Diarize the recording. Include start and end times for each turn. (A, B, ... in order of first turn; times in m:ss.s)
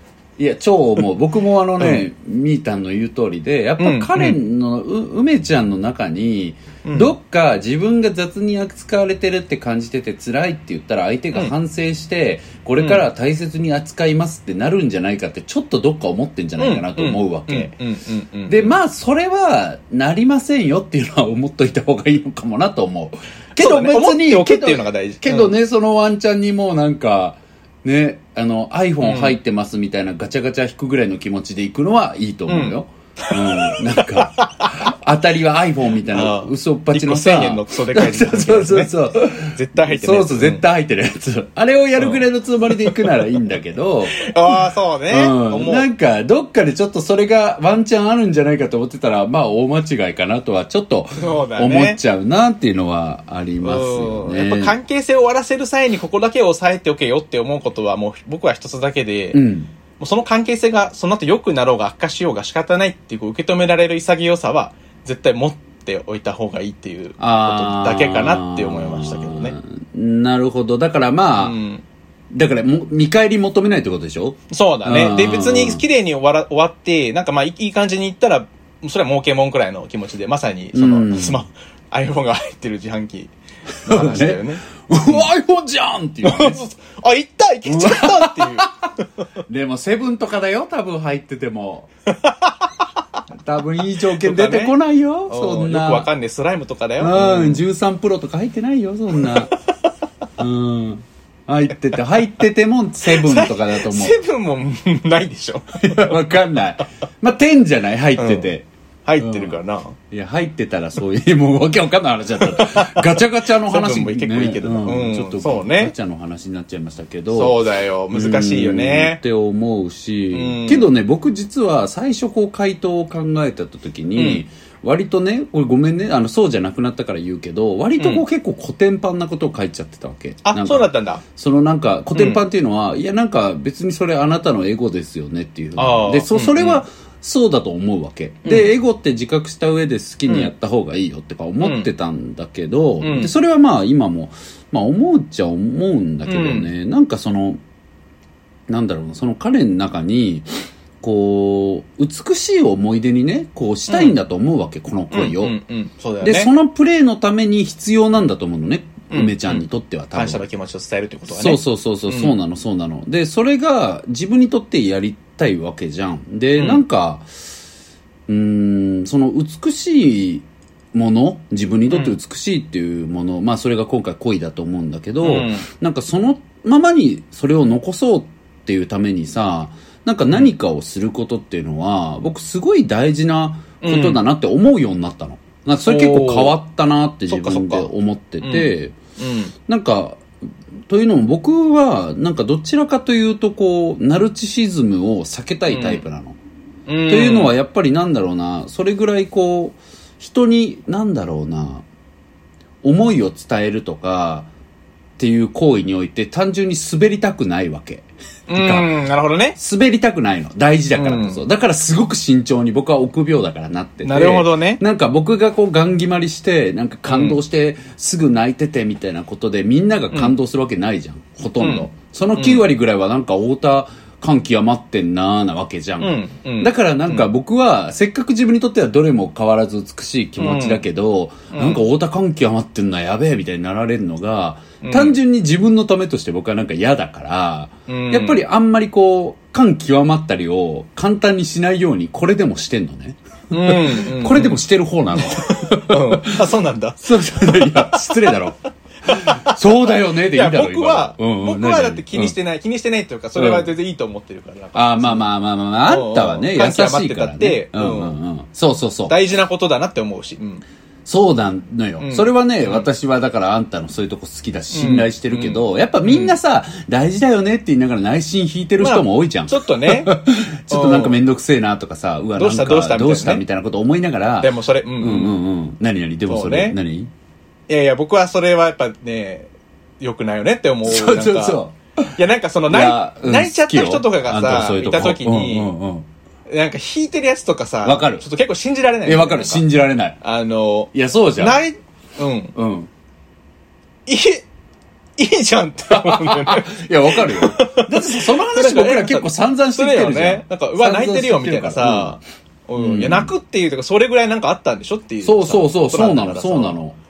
0:00.4-0:17.7 A
0:01.8-0:02.0 B
0:03.8-0:04.4 B
0:06.8-0:07.1 B
0:12.8-0:13.0 B
0:16.6-0:18.8 B
0:18.5-0:44.3 A
0:23.6-0:25.5 B
0:29.0-0:29.4 B
0:32.5-0:34.8 B
0:36.1-0:40.6 B
0:42.0-0:42.2 B
0:42.8-0:43.2 B
0:44.2-0:45.9 B
0:45.1-0:54.7 A
0:51.2-0:52.0 B
0:53.6-0:59.4 B
0:59.3-0:59.7 A
1:00.0-1:09.6 B
1:07.2-1:11.6 A
1:11.4-1:11.8 B
1:12.3-1:15.8 A
1:14.5-1:23.3 B
1:20.7-1:21.4 A
1:23.8-1:25.3 B
1:23.8-1:26.6 A
1:26.2-1:28.7 B
1:27.6-1:28.7 A
1:29.5-1:31.9 A
1:32.2-1:32.7 B
1:33.3-1:36.1 A
1:34.0-1:37.6 B
1:37.0-1:39.5 A
1:40.4-1:44.2 A
1:43.1-1:46.2 B
1:45.8-1:48.6 A
1:48.2-1:48.5 B
1:49.0-1:50.0 B
1:49.2-1:49.6 A
1:50.1-1:57.6 A
1:52.4-1:55.9 B
1:57.3-1:59.2 B
1:58.1-2:27.6 A
2:00.3-2:00.9 B
2:04.2-2:04.4 B
2:08.0-2:08.2 B
2:10.4-2:11.2 B
2:12.1-2:12.4 B
2:15.8-2:16.8 B
2:18.4-2:18.7 B
2:21.6-2:21.9 B
2:23.0-2:23.3 B
2:26.3-2:26.7 B
2:28.7-2:30.5 A
2:31.0-2:35.6 A
2:33.9-2:34.2 B
2:35.1-2:36.5 B
2:36.2-2:40.4 A
2:39.1-2:42.4 B
2:41.3-2:47.3 A
2:46.6-2:46.8 B
2:48.3-3:09.0 A
2:51.9-2:52.2 B
2:55.2-2:55.6 B
3:03.8-3:04.2 B
3:05.8-3:06.6 B
3:07.3-3:07.9 B
3:08.4-3:09.5 B
3:09.7-3:10.2 A
3:10.9-3:16.4 A
3:15.7-3:16.0 B
3:16.9-3:17.5 B
3:17.1-3:21.8 A
3:22.8-3:24.5 A
3:25.2-3:28.9 A
3:28.5-3:29.6 B
3:29.5-4:12.3 A
3:30.9-3:31.4 B
3:34.0-3:34.8 B
3:37.1-3:37.4 B
3:41.6-3:42.6 B
3:46.0-3:47.3 B
3:50.4-3:50.8 B
3:51.5-3:51.8 B
3:54.8-3:55.2 B
3:57.9-3:58.4 B
4:03.5-4:04.6 B
4:05.1-4:08.4 B
4:09.0-4:15.3 B
4:13.3-4:13.7 A
4:14.7-4:19.2 A
4:15.8-4:18.2 B
4:19.1-4:20.6 B
4:21.0-4:37.1 A
4:22.0-4:22.9 B
4:24.7-4:26.3 B
4:28.8-4:31.2 B
4:32.4-4:33.4 B
4:34.4-4:35.4 B
4:36.3-4:36.8 B
4:37.7-4:41.6 B
4:40.8-4:42.2 A
4:42.1-4:45.7 B
4:42.7-4:46.1 A
4:46.5-4:49.7 B
4:47.8-4:48.2 A
4:49.0-4:50.2 A
4:50.2-4:52.5 B
4:50.9-4:51.6 A
4:52.5-4:52.9 A
4:54.0-4:54.4 B
4:55.2-5:06.8 B
4:55.9-5:02.2 A
5:02.8-5:03.3 A
5:05.2-5:07.0 A